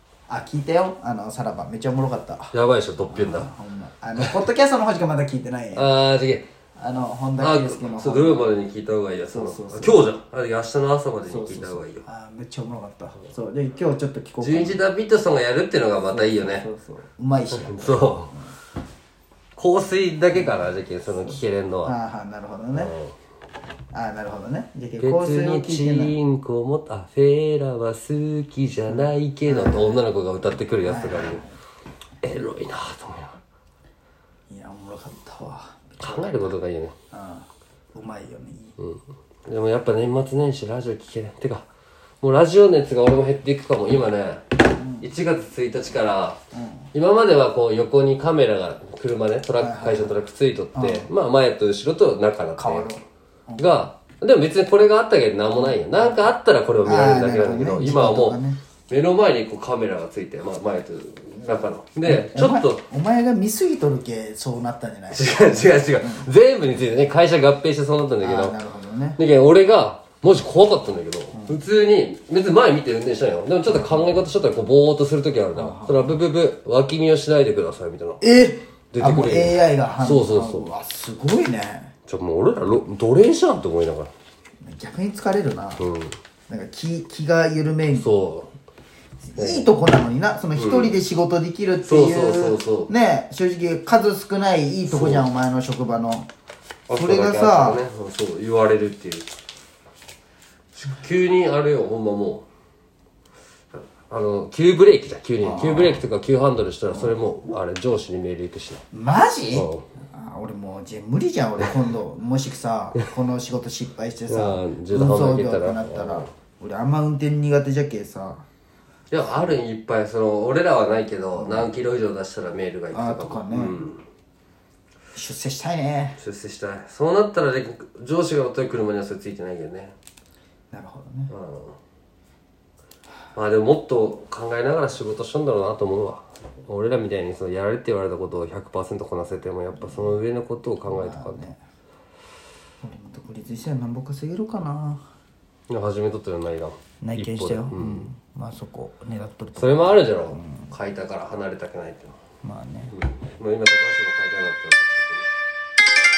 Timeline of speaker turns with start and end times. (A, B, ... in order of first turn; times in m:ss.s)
0:00.3-0:02.5 A
0:02.5-0:03.5 B
0:03.0-0:06.0 A
0:05.8-0:06.5 B
0:06.8-0:08.5 A
0:07.4-0:12.0 B
0:09.3-0:10.1 A
0:11.3-0:14.8 A
0:14.4-0:16.7 B
0:16.1-0:18.5 A
0:17.6-0:18.4 B
0:19.6-0:21.9 B
0:20.3-0:22.9 A
0:22.7-0:23.2 B
0:23.9-0:26.2 A
0:25.0-0:31.4 B
0:28.9-0:30.0 A
0:30.8-0:31.6 A
0:32.2-0:33.4 B
0:34.5-0:36.6 A
0:36.0-0:36.9 B
0:37.1-0:38.8 A
0:38.8-0:41.7 B
0:42.2-0:46.4 B
0:44.7-0:45.1 A
0:46.5-0:46.9 A
0:46.9-0:52.9 B
0:49.6-0:51.1 A
0:52.6-0:53.7 A
0:53.6-1:02.8 B
0:55.6-0:56.2 A
0:56.8-0:58.6 A
1:02.0-1:06.3 A
1:05.1-1:08.6 B
1:08.2-1:09.2 A
1:09.2-1:18.2 B
1:11.3-1:11.6 A
1:15.5-1:16.2 A
1:18.2-1:21.9 A
1:18.9-1:20.7 B
1:22.1-1:24.1 B
1:24.6-1:25.8 A
1:25.8-1:26.2 B
1:26.5-1:28.1 A
1:27.9-1:28.5 B
1:29.3-1:36.3 A
1:29.4-1:29.7 B
1:30.6-1:31.0 B
1:31.8-1:32.9 B
1:34.9-1:35.3 B
1:36.9-1:39.3 B
1:36.9-1:37.8 A
1:40.8-1:42.5 B
1:43.7-1:48.8 B
1:45.4-1:46.0 A
1:46.9-1:47.2 A
1:48.9-1:58.5 A
1:49.5-1:49.9 B
1:54.3-1:56.3 B
1:59.1-2:04.0 B
1:59.3-1:59.6 A
2:01.4-2:01.7 A
2:02.9-2:03.8 A
2:05.1-2:06.2 A
2:06.2-2:10.0 B
2:10.7-2:11.3 A
2:11.3-2:11.8 B
2:13.4-2:21.4 B
2:19.8-2:20.2 A
2:20.9-2:21.6 A
2:22.8-2:25.0 A
2:25.7-2:28.1 B
2:27.0-2:30.7 A
2:29.6-2:32.2 B
2:32.4-2:33.0 A
2:32.9-2:35.3 B